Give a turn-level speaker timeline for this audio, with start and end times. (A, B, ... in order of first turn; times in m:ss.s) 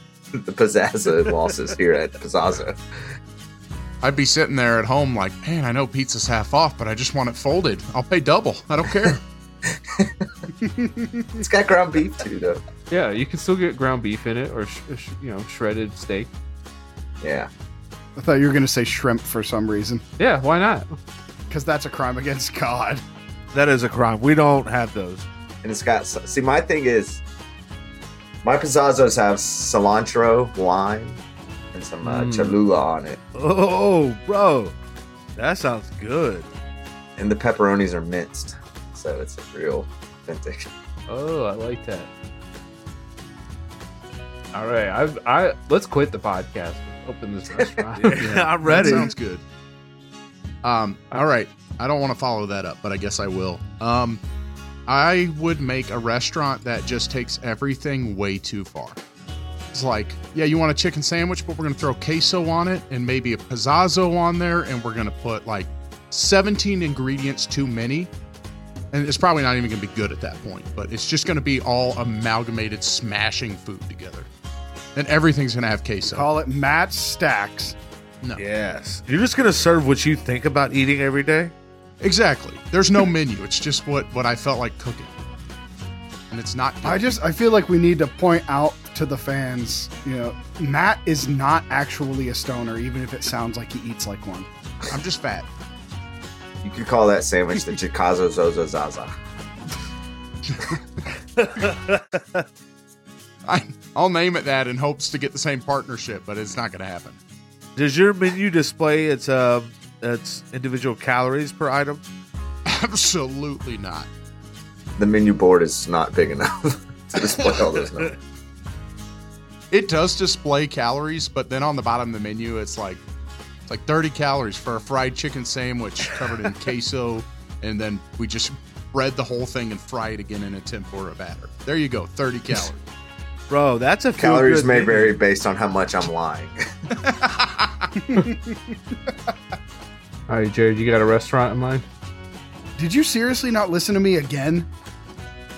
0:00.3-0:02.8 A
0:04.0-0:09.2 B
0:09.7-0:10.3 A
0:10.6-0:11.4 C
0:11.4-0:12.6 A
0:12.9-0:16.3 D
0:17.2-0:17.5 A
0:18.2-0:20.0 C
0:20.2-0:21.0 D
0:21.5-0:23.0 C
0:23.5-0:25.3 E
0:25.6-0:27.2 A
0:28.4-0:31.2 A
0:31.7-0:33.2 A
0:32.0-0:32.6 D
0:33.4-0:34.7 E
0:35.4-0:36.5 E
0:37.2-0:40.7 A
0:41.1-0:42.1 D
0:44.5-0:49.1 D
0:48.0-0:49.1 E
0:48.7-0:49.4 B
0:50.6-0:54.2 B
0:54.9-0:59.0 B
0:59.7-1:08.1 B
1:08.9-1:14.3 B
1:15.0-1:16.3 B
1:16.0-1:17.8 C
1:18.4-1:21.5 E
1:22.0-1:25.1 B
1:26.3-1:27.2 B
1:26.8-1:34.5 C
1:34.9-1:35.5 B
1:36.6-1:39.1 A
1:40.5-1:40.8 B
1:41.4-1:42.4 E
1:43.5-1:47.2 B
1:47.8-1:52.0 E
1:52.7-1:54.1 B
1:55.0-1:58.1 A
1:59.7-2:03.0 B
2:03.7-2:12.8 B
2:13.5-2:15.2 E
2:14.2-2:16.6 A
2:17.0-2:17.9 B
2:18.1-2:19.3 C
2:20.3-2:21.9 D
2:22.8-2:24.7 C